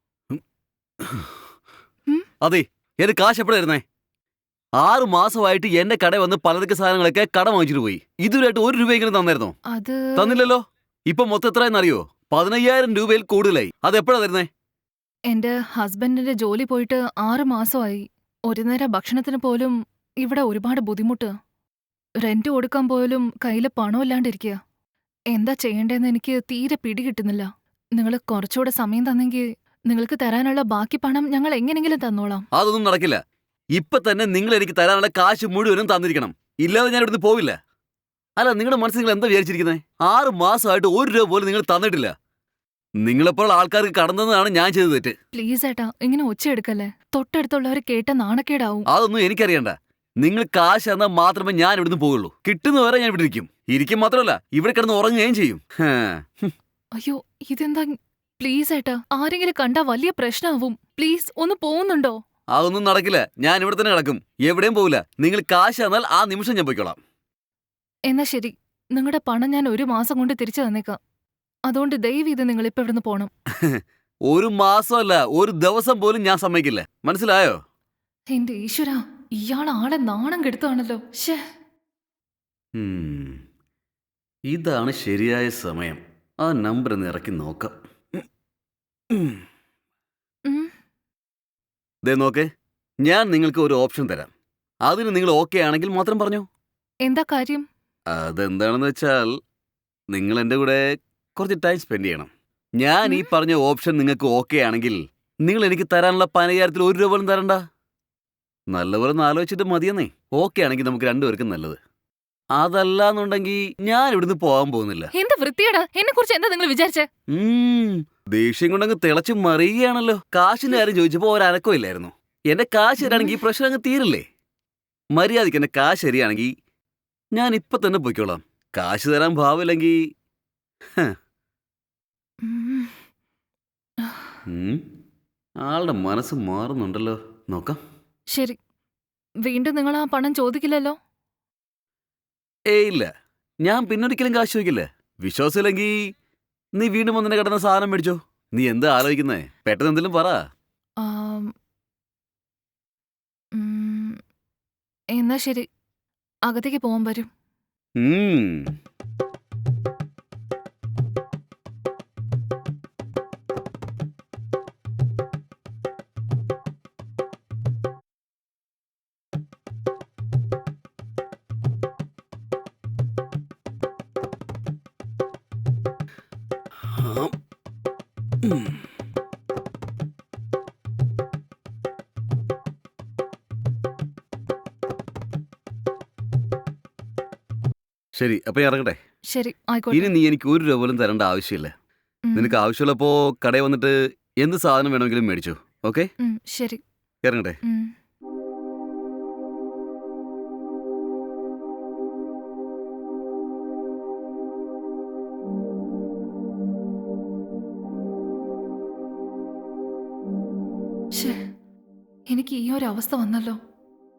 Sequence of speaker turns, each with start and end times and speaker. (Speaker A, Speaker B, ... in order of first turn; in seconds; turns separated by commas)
Speaker A: 1.0-1.3, Speaker A: 2.4-3.8, Speaker A: 4.8-9.6, Speaker B: 9.7-10.4, Speaker A: 10.2-14.5, Speaker B: 15.3-21.3, Speaker B: 22.2-24.6, Speaker B: 25.3-32.5, Speaker A: 32.5-33.2, Speaker A: 33.7-37.6, Speaker A: 38.4-42.1, Speaker A: 43.0-45.1, Speaker B: 45.3-48.9, Speaker A: 48.9-56.5, Speaker B: 57.0-62.2, Speaker A: 62.5-67.0, Speaker B: 68.1-71.0, Speaker B: 71.7-73.3, Speaker A: 73.6-77.6, Speaker B: 78.3-81.4, Speaker A: 82.7-83.4, Speaker A: 84.5-88.2, Speaker A: 89.1-89.4, Speaker B: 90.5-90.7, Speaker A: 92.0-92.5, Speaker A: 93.0-94.3, Speaker A: 94.8-96.5, Speaker B: 97.0-97.6, Speaker A: 98.1-99.3, Speaker A: 100.1-107.6, Speaker B: 103.0-103.3, Speaker A: 108.7-111.8, Speaker A: 112.5-115.1, Speaker B: 115.1-117.1, Speaker A: 117.3-124.2, Speaker B: 123.0-123.4, Speaker A: 125.1-126.5, Speaker A: 127.3-130.0, Speaker B: 132.4-132.9, Speaker B: 134.0-134.4, Speaker A: 134.5-134.8, Speaker A: 135.6-137.8, Speaker B: 138.3-138.6, Speaker B: 139.4-141.0, Speaker A: 142.7-143.1, Speaker A: 143.6-146.1, Speaker A: 146.7-150.4, Speaker B: 151.0-151.5, Speaker B: 153.5-154.2, Speaker B: 155.2-155.7, Speaker B: 156.5-157.3, Speaker A: 158.0-158.7, Speaker A: 176.9-177.3, Speaker A: 178.4-178.7, Speaker A: 188.1-189.0, Speaker B: 189.3-190.1, Speaker A: 189.9-191.7, Speaker B: 192.2-192.6, Speaker A: 192.3-196.1, Speaker B: 196.2-196.8, Speaker A: 197.2-197.6, Speaker B: 197.6-197.9, Speaker B: 211.1-211.4, Speaker B: 212.3-213.6